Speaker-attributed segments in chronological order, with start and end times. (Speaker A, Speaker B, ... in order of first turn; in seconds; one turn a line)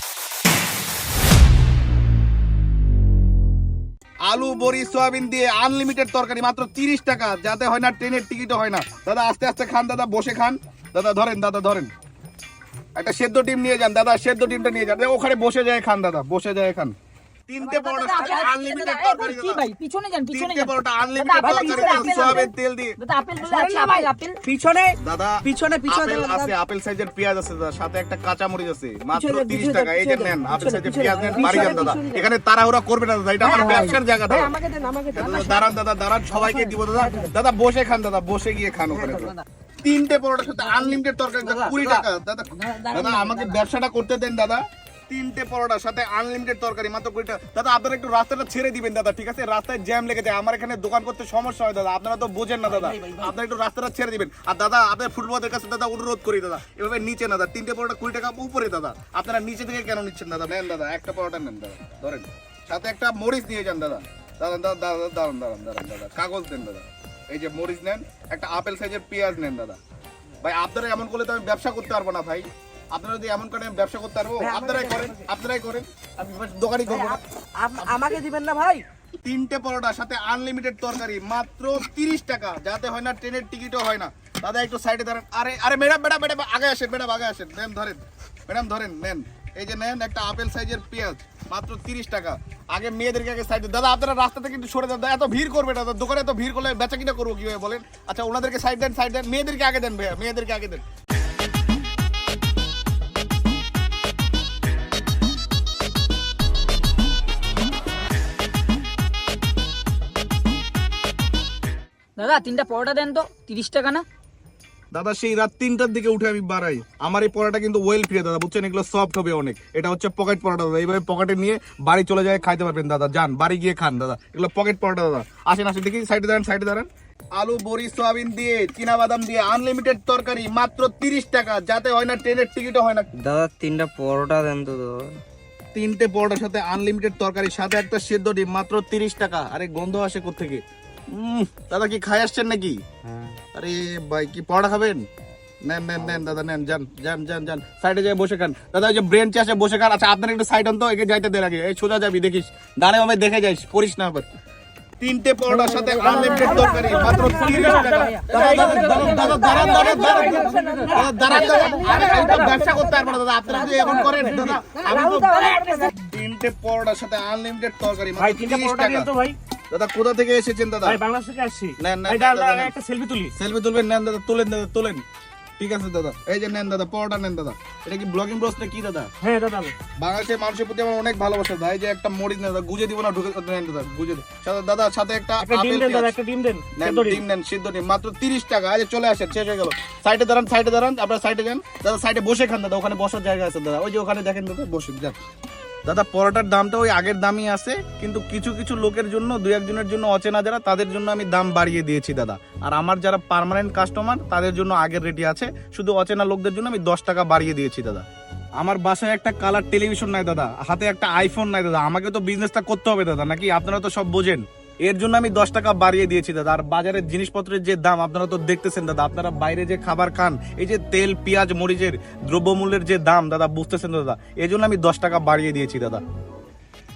Speaker A: 4.3-11.9
Speaker A: 13.0-16.9
Speaker A: 17.5-19.6
Speaker B: 17.6-24.4
Speaker A: 20.3-23.0
Speaker C: 21.4-22.4
Speaker C: 23.4-26.5
Speaker A: 25.0-34.5
Speaker C: 29.1-32.2
Speaker D: 31.4-31.9
Speaker C: 33.5-35.6
Speaker A: 35.1-69.8
Speaker A: 70.4-77.2
Speaker C: 74.4-75.0
Speaker C: 76.9-78.8
Speaker A: 77.8-78.1
Speaker A: 79.2-100.8
Speaker B: 112.2-114.0
Speaker A: 114.9-133.1
Speaker E: 133.2-135.2
Speaker A: 135.7-142.8
Speaker A: 143.5-145.1
Speaker A: 145.7-154.3
Speaker A: 155.0-169.1
Speaker D: 157.2-162.4
Speaker D: 163.8-164.2
Speaker C: 165.1-165.9
Speaker D: 165.2-165.8
Speaker D: 168.2-169.4
Speaker A: 169.7-171.0
Speaker D: 170.8-173.3
Speaker A: 171.8-172.7
Speaker A: 173.3-175.0
Speaker A: 175.6-179.1
Speaker D: 179.2-179.8
Speaker A: 180.0-186.1
Speaker D: 185.4-187.2
Speaker A: 186.8-195.2
Speaker A: 195.8-208.1
Speaker A: 208.6-226.0